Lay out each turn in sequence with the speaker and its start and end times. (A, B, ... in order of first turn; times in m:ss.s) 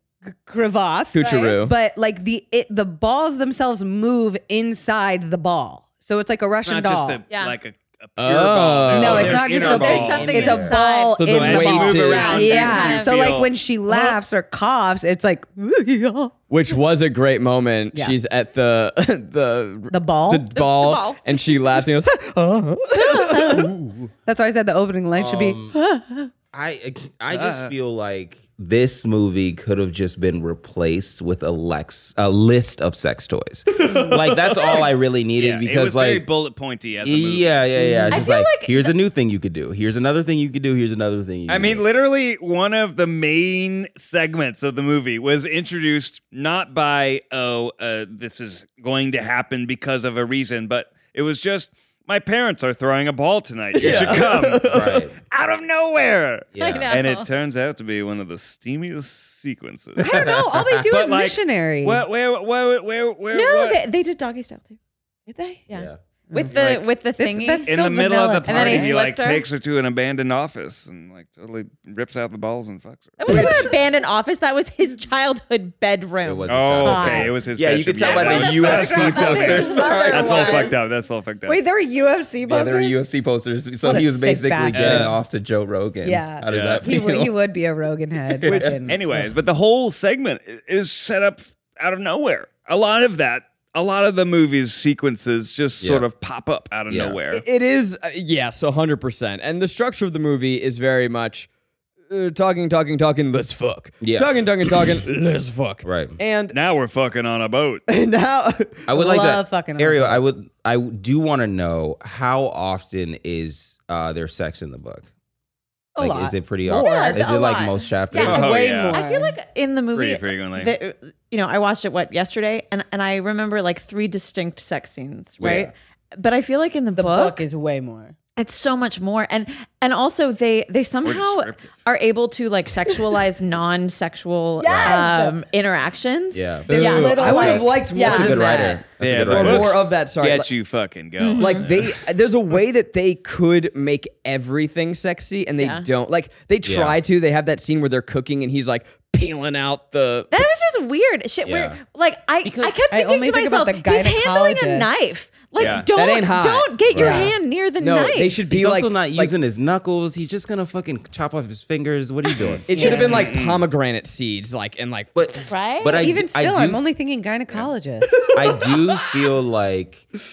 0:00.4-0:07.2 A
0:01.1-0:01.7 B
0:01.2-0:01.7 C
0:06.6-0:10.7 D
0:07.3-0:07.6 C
0:08.2-0:09.5 B
0:08.9-0:16.3 A
0:09.1-0:10.8 E
0:09.5-0:11.3 C
0:11.2-0:12.7 B
0:11.2-0:14.2 D
0:11.9-0:13.2 C
0:16.5-0:23.7 B
0:19.9-0:20.5 A
0:20.5-0:21.6 C
0:23.2-0:23.7 A
0:23.5-0:24.1 D
0:24.2-0:26.3 A
0:25.1-0:25.7 E
0:26.5-0:36.2 E
0:27.3-0:27.7 D
0:33.9-0:34.2 B
0:35.4-0:37.5 D
0:37.0-0:41.8 E
0:37.8-0:38.2 A
0:38.1-0:38.9 C
0:41.5-1:00.4 D
0:53.8-0:55.0 B
0:53.8-0:55.1 E
0:56.5-0:56.9 E
0:56.6-0:57.3 C
1:00.0-1:00.8 E
1:00.0-1:02.0 A
1:00.9-1:03.8 D
1:03.3-1:04.8 C
1:05.3-1:05.6 A
1:05.7-1:07.7 C
1:05.7-1:06.0 E
1:06.5-1:06.8 D
1:07.2-1:09.0 A
1:07.6-1:13.5 D
1:08.4-1:09.4 C
1:13.2-1:16.5 C
1:13.3-1:13.6 A
1:16.2-1:20.7 E
1:16.5-1:21.6 D
1:16.8-1:17.3 A
1:18.0-1:20.7 C
1:18.4-1:20.8 A
1:21.5-1:23.0 A
1:22.4-1:27.3 E
1:23.8-1:25.1 A
1:24.7-1:25.2 D
1:26.0-1:29.0 A
1:26.5-1:26.8 D
1:28.3-1:28.8 E
1:28.4-1:28.8 B
1:28.9-1:37.4 D
1:36.9-1:37.2 E
1:37.3-1:41.5 B
1:42.1-1:46.5 B
1:44.0-1:44.3 E
1:45.8-1:46.2 E
1:46.5-1:47.8 D
1:47.9-1:48.8 B
1:48.9-1:55.0 E
1:48.9-1:50.2 A
1:56.0-1:57.2 A
1:56.0-1:58.6 E
1:56.7-2:07.5 C
1:58.1-1:59.3 A
1:58.2-1:59.0 D
1:59.9-2:00.7 D
2:05.4-2:05.7 E
2:06.9-2:08.1 A
2:08.4-2:18.8 C
2:11.0-2:11.8 D
2:14.6-2:15.4 A
2:14.6-2:15.0 E
2:16.3-2:19.8 E
2:16.7-2:20.5 B
2:16.7-2:17.9 A
2:19.0-2:22.0 D
2:21.2-2:21.7 C
2:21.4-2:30.5 B
2:25.6-2:25.9 C
2:26.6-2:27.0 E
2:30.3-2:38.4 C
2:31.4-2:31.8 E
2:32.4-2:32.8 E
2:32.9-2:34.9 A
2:35.6-2:35.9 D
2:35.9-2:37.3 B
2:36.9-2:37.2 E
2:37.0-2:37.3 A
2:37.8-2:39.3 B
2:38.5-2:43.3 E
2:42.4-2:43.6 D
2:42.7-2:45.1 B
2:42.7-2:43.2 A
2:42.8-2:43.0 C
2:45.1-2:46.8 E
2:45.4-2:46.1 C
2:46.0-2:48.3 A
2:48.3-2:50.0 E